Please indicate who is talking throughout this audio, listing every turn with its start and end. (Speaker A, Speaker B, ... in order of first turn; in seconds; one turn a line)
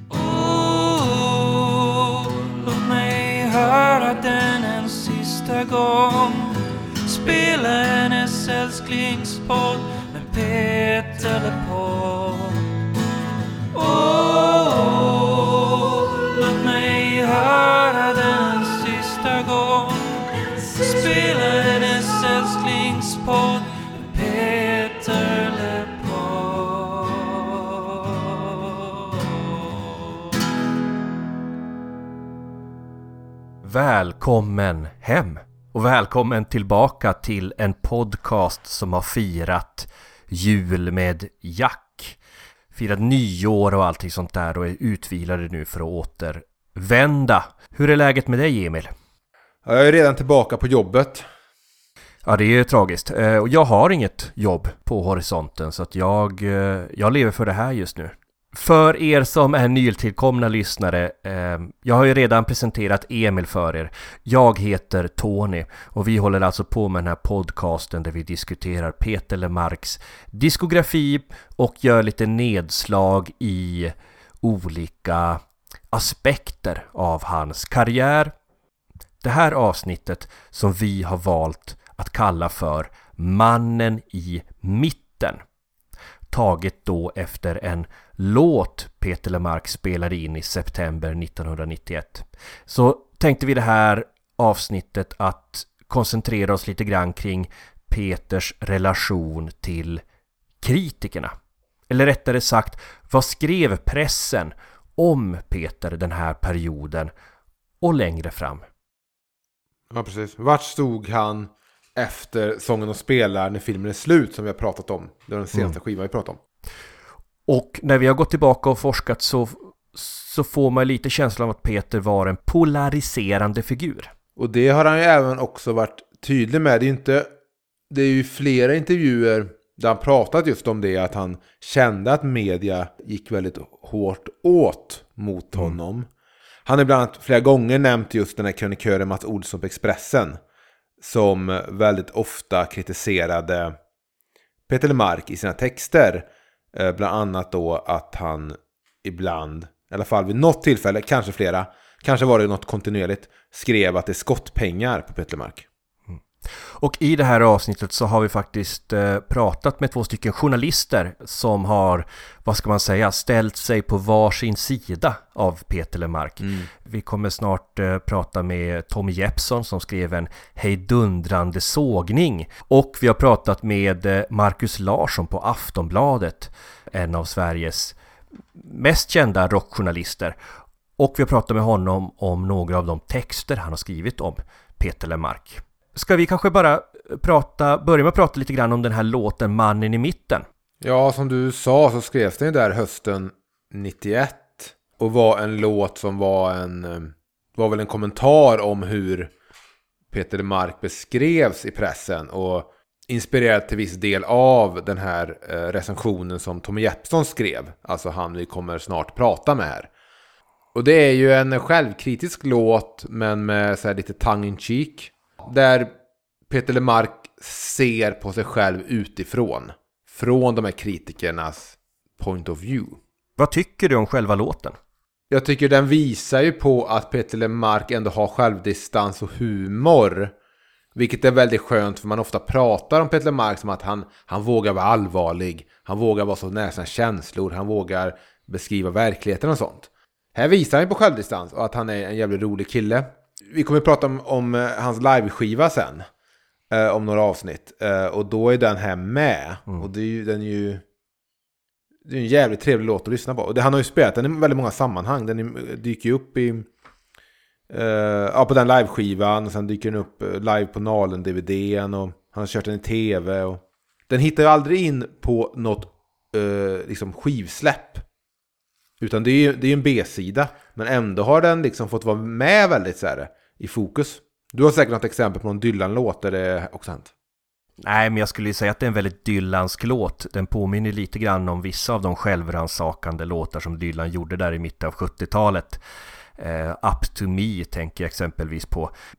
Speaker A: 0.1-12.7
Speaker A: 13.7-30.0
Speaker B: 33.6-42.2
Speaker B: 42.7-48.9
Speaker C: 49.6-51.2
Speaker B: 52.2-75.4
Speaker B: 75.9-78.3
Speaker B: 79.2-85.4
Speaker B: 86.3-100.0
Speaker B: 100.6-101.3
Speaker B: 101.9-107.1
Speaker B: 107.8-108.7
Speaker C: 109.9-116.4
Speaker B: 117.5-124.1
Speaker C: 124.3-127.3
Speaker C: 127.9-136.1
Speaker C: 136.7-140.4
Speaker C: 141.0-143.8
Speaker C: 144.7-155.6
Speaker B: 156.1-177.9
Speaker C: 166.4-166.7
Speaker B: 178.6-180.3
Speaker B: 181.0-190.4
Speaker C: 190.8-199.3
Speaker C: 200.1-209.9
Speaker C: 210.7-215.9
Speaker C: 216.5-223.0
Speaker B: 223.4-224.8
Speaker C: 225.3-230.3
Speaker C: 230.9-246.1
Speaker C: 246.7-250.8
Speaker C: 252.0-256.7
Speaker C: 257.7-268.0
Speaker C: 269.0-277.1
Speaker B: 277.8-285.8
Speaker B: 286.4-288.9